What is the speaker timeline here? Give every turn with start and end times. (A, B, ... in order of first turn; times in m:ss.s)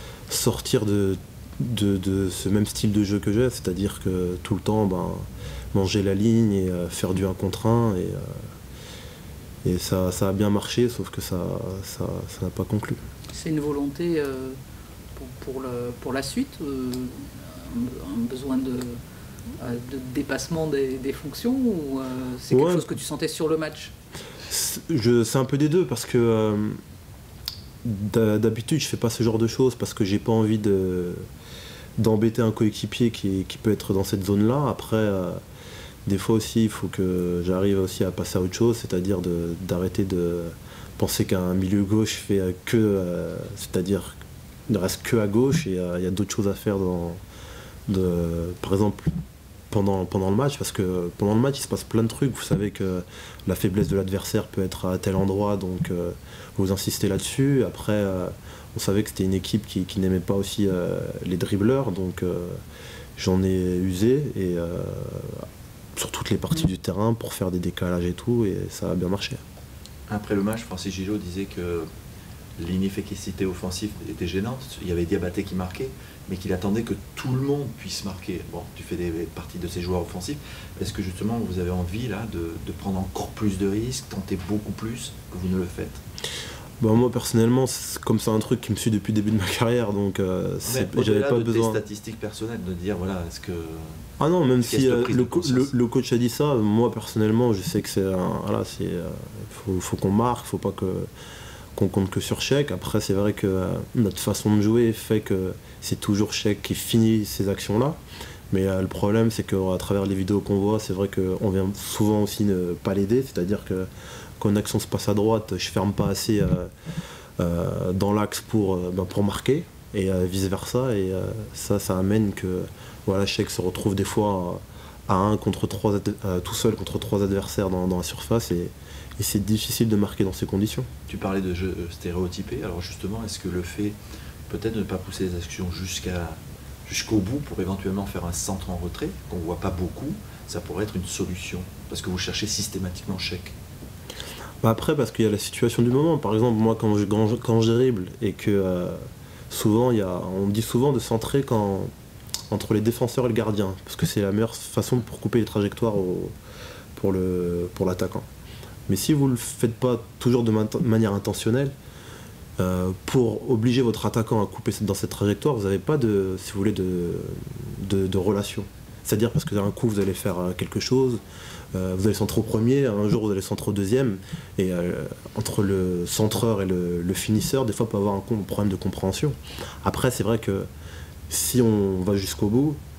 0:00.3-0:08.5 A
0:09.6-0:13.0 A
0:13.3-0:14.6 B
0:15.2-0:19.0 B
0:19.6-0:23.9 B
0:22.5-0:22.9 A
0:24.5-0:26.8 A
0:27.8-0:31.3 A
0:32.0-0:35.4 A
0:36.1-0:47.2 A
0:47.9-0:49.1 A
0:49.7-1:02.6 A
1:03.2-1:09.4 A
1:10.1-1:11.9 C
1:12.6-1:26.0 C
1:26.8-1:31.8 A
1:30.6-1:34.0 C
1:34.2-1:41.1 A
1:34.6-1:35.7 C
1:41.8-1:48.0 A
1:48.5-1:56.7 A
1:57.4-2:10.9 A
2:11.1-2:14.0 C
2:14.5-2:23.6 C
2:24.6-2:31.9 A
2:32.5-2:36.3 A
2:37.0-2:38.3 A
2:38.9-2:41.8 A
2:42.6-2:51.2 A
2:51.7-3:00.7 A
3:01.3-3:02.8 A